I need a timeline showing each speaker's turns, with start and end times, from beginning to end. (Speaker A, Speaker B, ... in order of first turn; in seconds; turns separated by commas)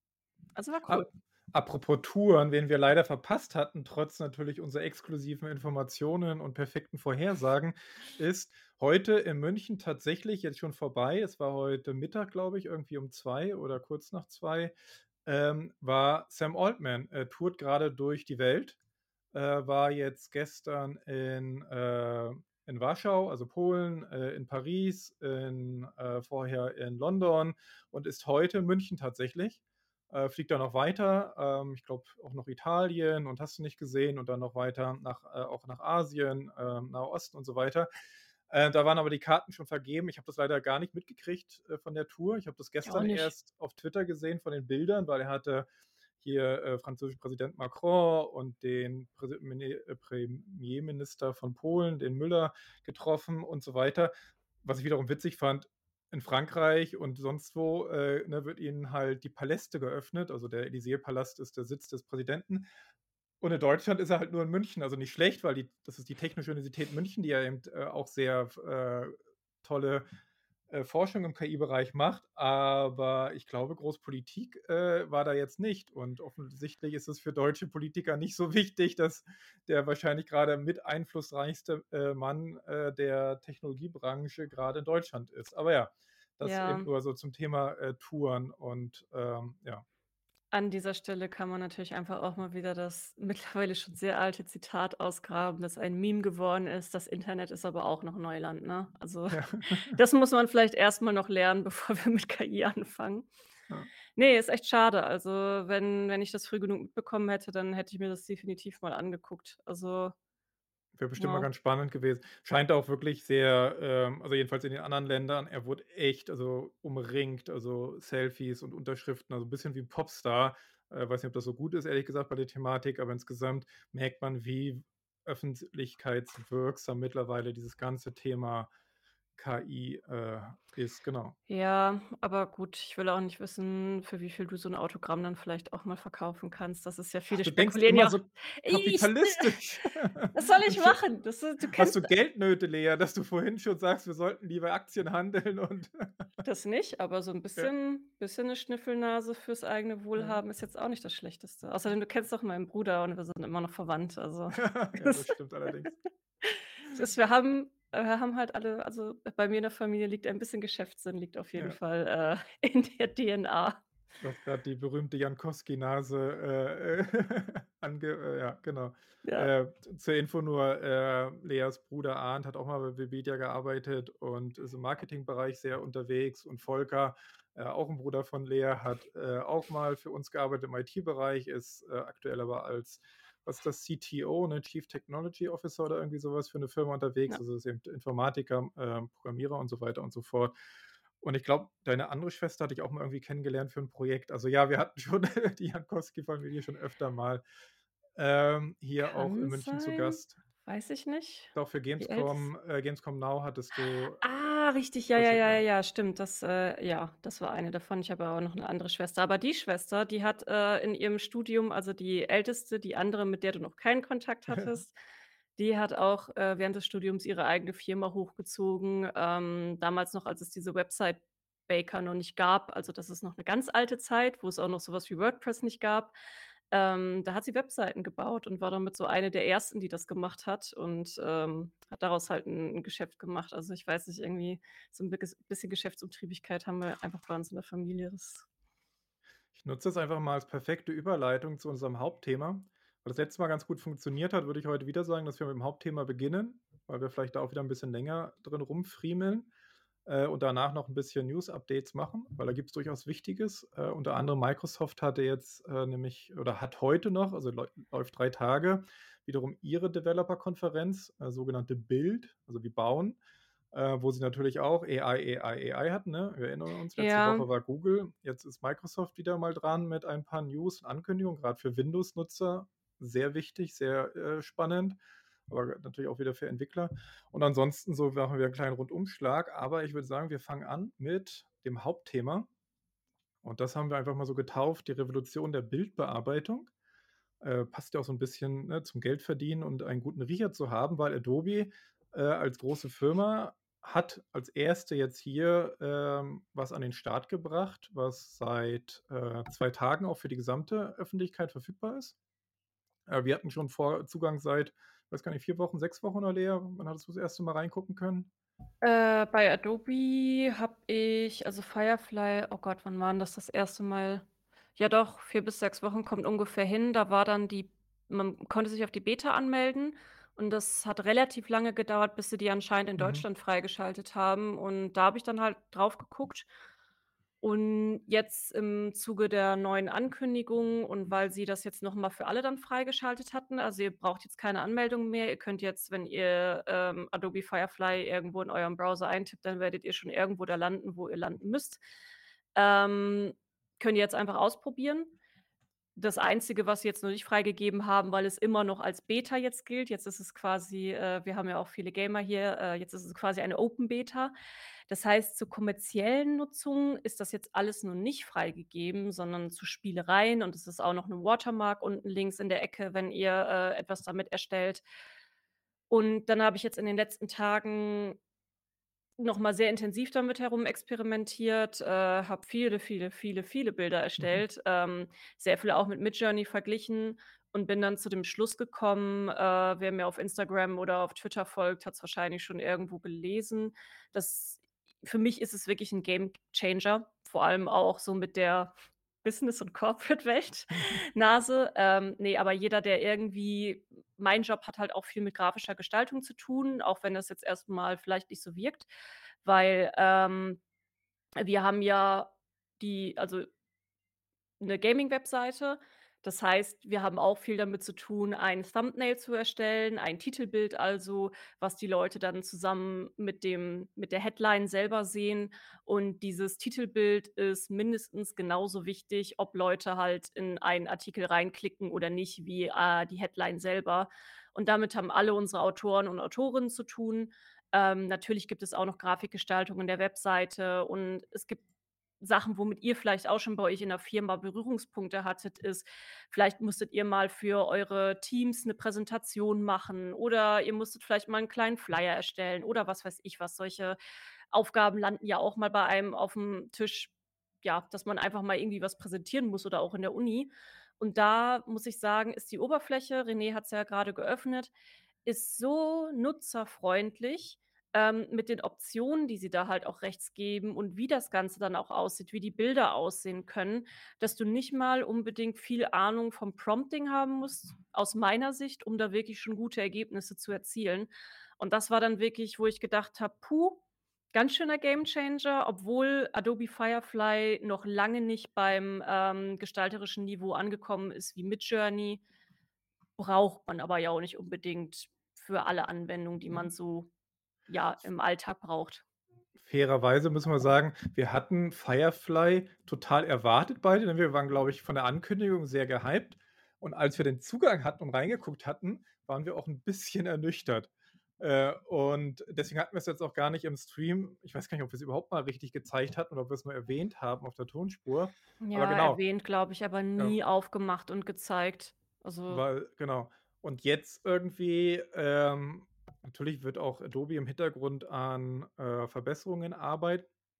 Speaker A: 0.5-1.1, Speaker B: 0.9-14.7, Speaker B: 15.2-18.8, Speaker B: 19.3-37.9, Speaker B: 38.5-45.7, Speaker A: 42.8-43.3, Speaker B: 46.2-54.1, Speaker B: 54.6-62.6, Speaker B: 63.4-70.0, Speaker B: 70.7-89.8, Speaker A: 86.4-86.9, Speaker A: 90.5-103.3, Speaker B: 99.3-100.0, Speaker A: 104.2-110.1, Speaker B: 111.0-128.7, Speaker A: 111.2-111.5, Speaker B: 129.3-131.3, Speaker A: 131.5-139.5, Speaker B: 137.3-141.0, Speaker A: 140.3-142.1, Speaker B: 141.7-146.3, Speaker A: 146.4-155.3, Speaker B: 154.5-156.0, Speaker A: 156.4-163.8, Speaker B: 164.2-190.5, Speaker A: 169.2-169.5, Speaker B: 191.2-197.4, Speaker B: 198.2-200.4, Speaker A: 199.0-202.5, Speaker B: 201.5-204.2, Speaker A: 204.2-214.9, Speaker B: 205.2-205.6, Speaker B: 214.5-214.8, Speaker A: 215.6-226.1, Speaker A: 226.7-238.5, Speaker B: 239.5-249.5, Speaker B: 250.1-263.2, Speaker B: 263.7-275.0, Speaker A: 267.0-267.5, Speaker B: 275.5-282.5, Speaker B: 283.4-286.7, Speaker B: 287.4-302.1, Speaker B: 303.1-308.3, Speaker A: 308.8-314.2, Speaker A: 314.8-326.5, Speaker B: 323.0-323.2, Speaker A: 327.4-341.8, Speaker A: 342.5-345.1, Speaker A: 345.9-354.3, Speaker A: 354.9-364.8, Speaker A: 365.9-368.2, Speaker A: 369.2-388.7, Speaker A: 389.2-398.9, Speaker A: 399.4-400.6, Speaker A: 401.4-403.5, Speaker A: 404.6-431.6, Speaker A: 432.2-443.9, Speaker A: 444.5-447.1, Speaker A: 447.6-454.7, Speaker A: 455.2-473.8, Speaker A: 474.3-482.2, Speaker A: 483.2-487.1, Speaker A: 487.7-489.0, Speaker B: 489.6-509.2, Speaker A: 508.6-512.6, Speaker B: 512.5-520.3